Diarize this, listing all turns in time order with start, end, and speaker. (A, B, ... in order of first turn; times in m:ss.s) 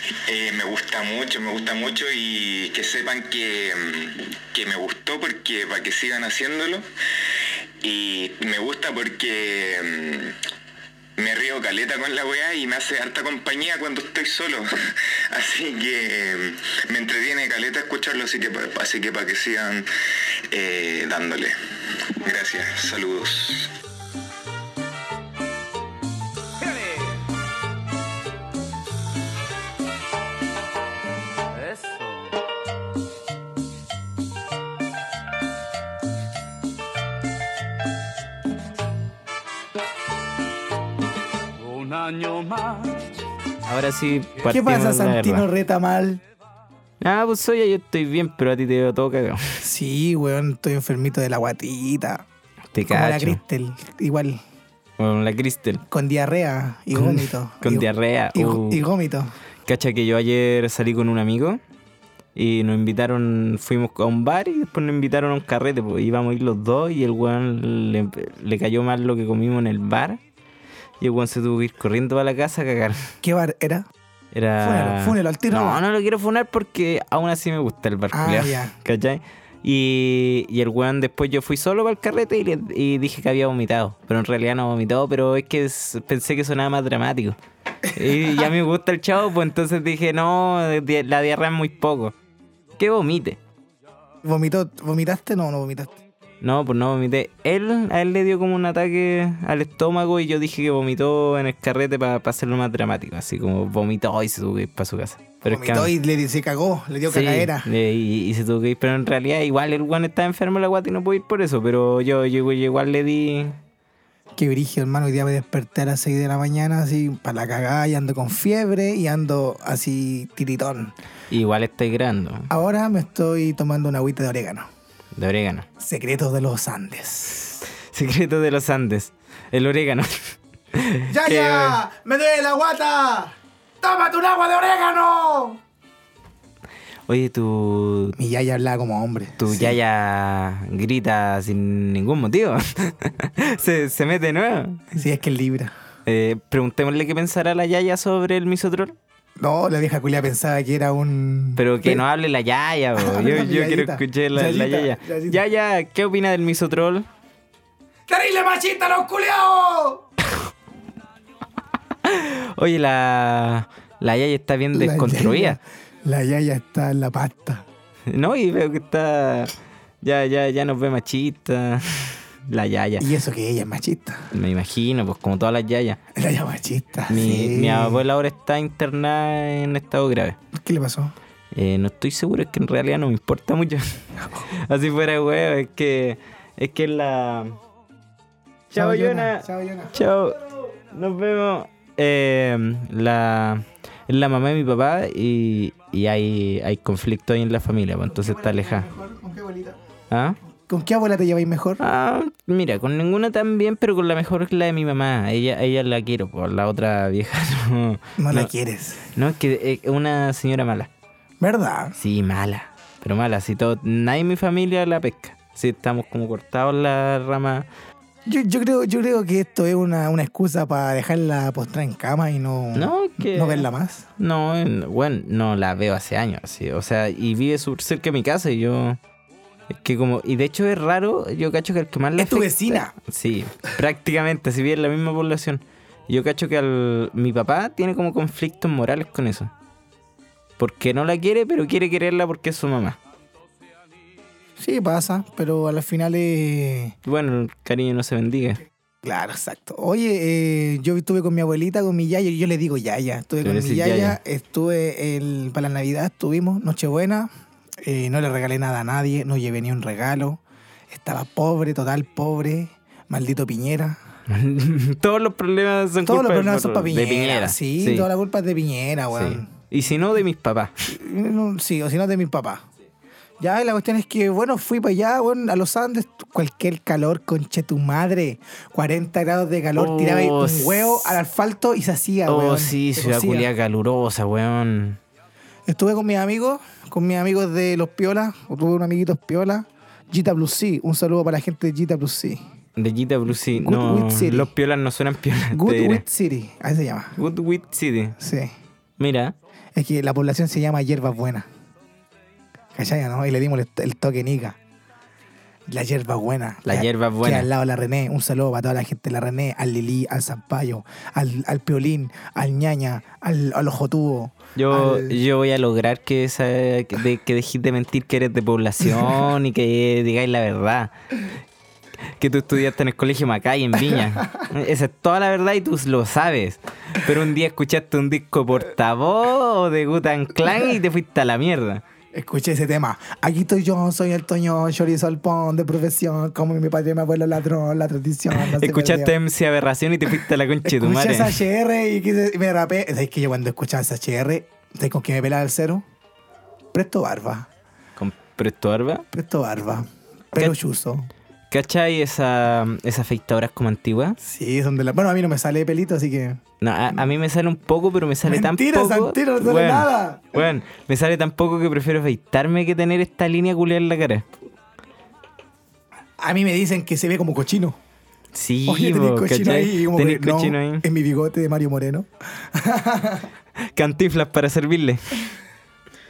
0:00.3-0:06.8 A
0:07.8-0:10.4 A
0:11.2-0:14.7 A
0:15.3-0:19.9 A
0:20.5-0:23.7 A
0:26.6-0:27.1 B
0:31.5-0:32.3 B
0:41.6-0:43.0 B
0:43.6-0:45.4 C
0:44.5-0:46.2 D
0:47.0-0:49.6 C
0:49.6-0:52.2 D
0:52.7-0:53.4 C
0:52.8-0:54.4 D
0:55.0-0:55.8 C
0:55.9-0:59.3 D
0:56.9-0:58.8 C
0:59.7-1:01.6 C
1:02.4-1:10.2 C
1:11.0-1:13.1 C
1:13.2-1:13.9 D
1:14.3-1:27.4 C
1:14.6-1:15.8 D
1:18.1-1:18.7 D
1:27.9-1:32.2 C
1:28.0-1:28.4 D
1:32.8-1:33.4 C
1:34.2-1:36.0 D
1:36.4-1:45.9 C
1:45.4-1:47.7 D
1:47.1-1:53.6 C
1:54.3-2:00.9 D
2:01.3-2:02.5 C
2:02.5-2:04.7 D
2:05.2-2:05.6 C
2:05.8-2:07.6 D
2:07.9-2:11.8 C
2:11.1-2:15.6 D
2:17.1-2:18.2 C
2:18.2-2:19.8 D
2:19.4-2:24.8 C
2:24.9-2:25.7 D
2:26.0-2:29.0 C
2:29.4-2:32.0 D
2:31.6-2:37.1 C
2:33.0-2:35.4 D
2:38.1-2:40.0 D
2:42.0-2:45.6 C
2:44.7-2:47.6 D
2:48.1-2:53.1 C
2:53.0-2:54.3 D
2:54.3-2:56.0 C
2:56.1-2:58.0 D
2:57.1-3:00.4 C
3:00.5-3:01.1 D
3:01.5-3:04.0 C
3:04.6-3:07.6 C
3:08.7-3:10.4 C
3:08.7-3:09.9 D
3:10.9-3:18.9 C
3:18.1-3:19.8 D
3:20.1-3:20.4 C
3:20.6-3:21.8 D
3:21.8-3:28.5 C
3:28.2-3:29.1 D
3:29.1-3:30.9 C
3:31.4-3:31.9 D
3:32.0-3:37.7 C
3:38.2-3:44.1 D
3:42.7-3:43.6 C
3:44.2-3:49.0 C
3:49.7-3:59.5 C
3:52.2-3:52.9 D
4:00.6-4:03.0 C
4:04.6-4:06.9 D
4:07.0-4:08.6 C
4:09.0-4:24.0 D
4:13.4-4:14.2 C
4:24.3-4:28.1 C
4:26.0-4:29.5 D
4:29.1-4:30.7 C
4:30.9-4:32.6 D
4:33.4-4:43.5 D
4:39.7-4:41.2 C
4:42.3-4:45.0 C
4:45.7-4:52.4 D
4:52.8-4:56.0 C
4:53.4-4:54.5 D
4:55.5-4:57.2 D
4:57.2-4:58.2 C
4:58.2-4:58.5 D
4:59.0-4:59.3 C
4:59.7-5:01.5 D
5:02.7-5:04.6 D
5:05.7-5:15.2 D
5:06.6-5:07.5 C
5:14.6-5:20.9 C
5:18.9-5:19.2 D
5:22.2-5:31.8 C
5:23.8-5:24.4 D
5:32.1-5:39.1 D
5:38.3-5:41.4 C
5:40.1-5:45.8 D
5:46.7-5:47.5 D
5:48.0-5:49.0 C
5:49.1-5:51.1 D
5:51.5-5:54.2 C
5:54.2-5:56.4 D
5:56.6-6:04.2 C
5:58.2-6:00.5 D
6:06.2-6:07.8 D
6:08.3-6:10.8 C
6:08.6-6:13.3 D
6:13.7-6:15.2 C